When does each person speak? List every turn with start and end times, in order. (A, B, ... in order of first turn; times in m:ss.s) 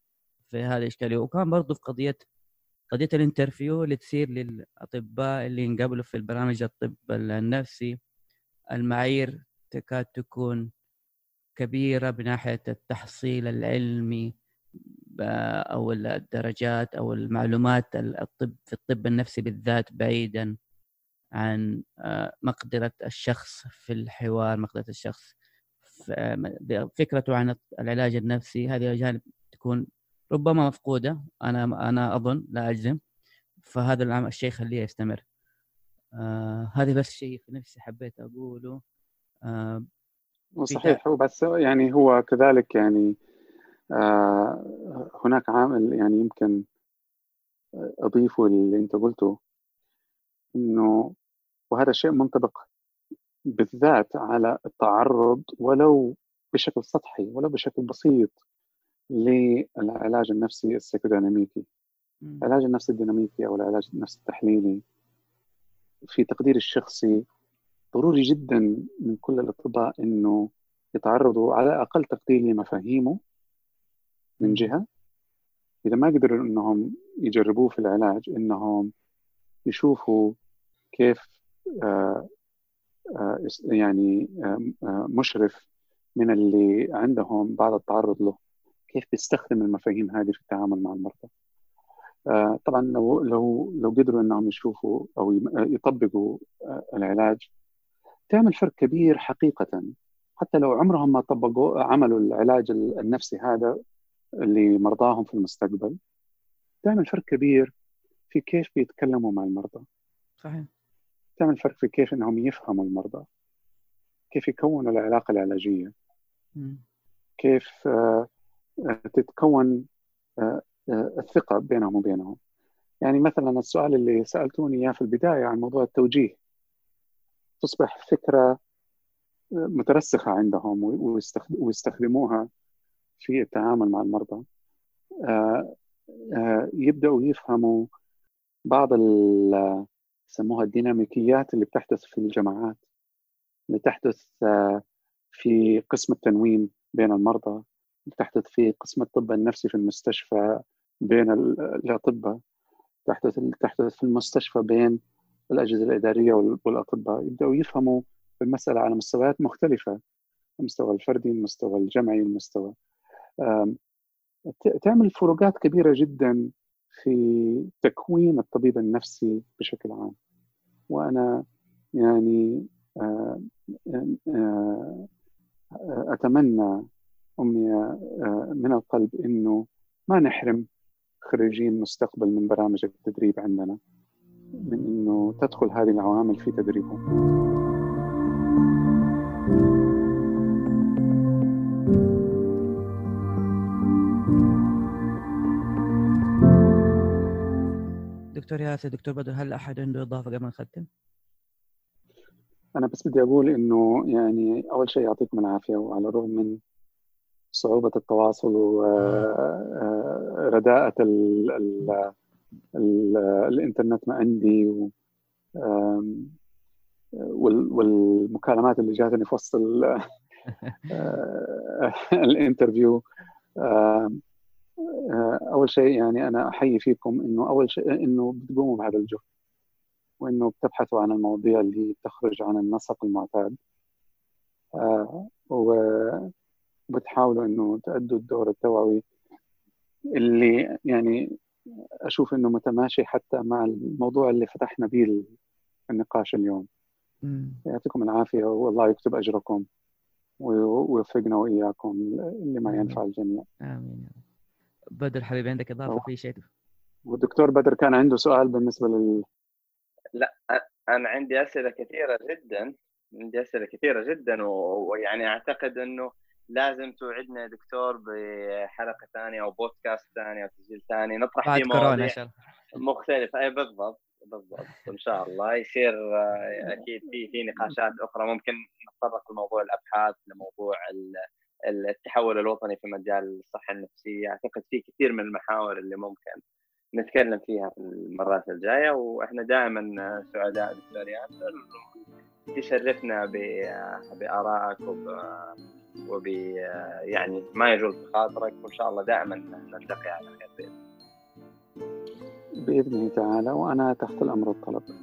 0:00.5-0:02.2 A
0:02.9-0:07.9 A
0:08.7-0:10.7 A
0:11.6-0:14.3 A
0:15.2-0:20.5 A
0:21.4-0:25.3 A
0:25.9-0:33.0 A
0:33.6-0:35.2 A
0:36.1-0:38.8 A
0:39.4-0:39.9 A
0:40.6-0:43.2 B
0:40.7-0:41.0 A
0:44.0-0:46.6 B
0:48.0-0:49.4 B
0:50.6-0:50.9 B
0:51.7-0:52.6 B
0:53.6-0:58.3 B
0:59.2-1:01.6 B
1:02.4-1:04.8 B
1:06.1-1:07.2 B
1:07.9-1:13.2 B
1:14.4-1:14.8 B
1:14.4-1:14.7 A
1:15.8-1:18.9 B
1:19.7-1:20.3 B
1:20.9-1:22.3 B
1:23.2-1:25.6 B
1:26.2-1:28.4 B
1:28.9-1:31.3 B
1:32.3-1:37.4 B
1:38.3-1:43.7 B
1:44.4-1:46.0 B
1:46.8-1:47.7 B
1:48.3-1:49.8 B
1:50.4-1:50.7 A
1:51.4-1:53.2 B
1:54.3-1:55.9 B
1:56.6-1:56.8 A
1:57.4-1:58.3 B
1:58.8-1:59.8 B
2:00.4-2:02.4 B
2:03.0-2:06.4 B
2:07.6-2:08.5 B
2:09.7-2:12.5 B
2:13.2-2:14.4 B
2:15.3-2:15.7 B
2:16.3-2:17.9 B
2:18.7-2:22.8 B
2:23.7-2:24.8 B
2:25.3-2:32.4 B
2:33.1-2:35.0 B
2:35.5-2:40.0 B
2:40.6-2:42.7 B
2:43.4-2:43.8 B
2:44.5-2:50.1 B
2:50.9-2:51.4 B
2:52.0-2:55.1 B
2:55.9-2:56.8 B
2:57.4-3:00.6 B
3:01.2-3:03.8 B
3:04.7-3:07.0 B
3:18.3-3:20.9 A
3:22.8-3:26.6 B
3:27.5-3:32.1 B
3:32.8-3:34.9 B
3:35.6-3:36.3 B
3:37.2-3:40.0 B
3:40.9-3:43.0 B
3:43.6-3:44.2 B
3:45.1-3:49.2 B
3:50.2-3:53.6 B
3:54.8-3:56.3 B
3:56.9-3:59.0 B
4:00.2-4:01.2 B
4:02.1-4:05.3 B
4:05.9-4:06.7 B
4:07.2-4:07.6 A
4:07.7-4:09.6 B
4:10.4-4:13.4 B
4:12.6-4:13.0 A
4:13.6-4:14.2 A
4:14.9-4:16.5 A
4:17.1-4:19.2 B
4:20.1-4:32.2 C
4:31.4-4:32.3 A
4:32.7-4:46.4 C
4:47.0-4:52.0 C
4:52.5-4:55.5 C
4:56.1-5:00.7 C
5:02.6-5:04.9 B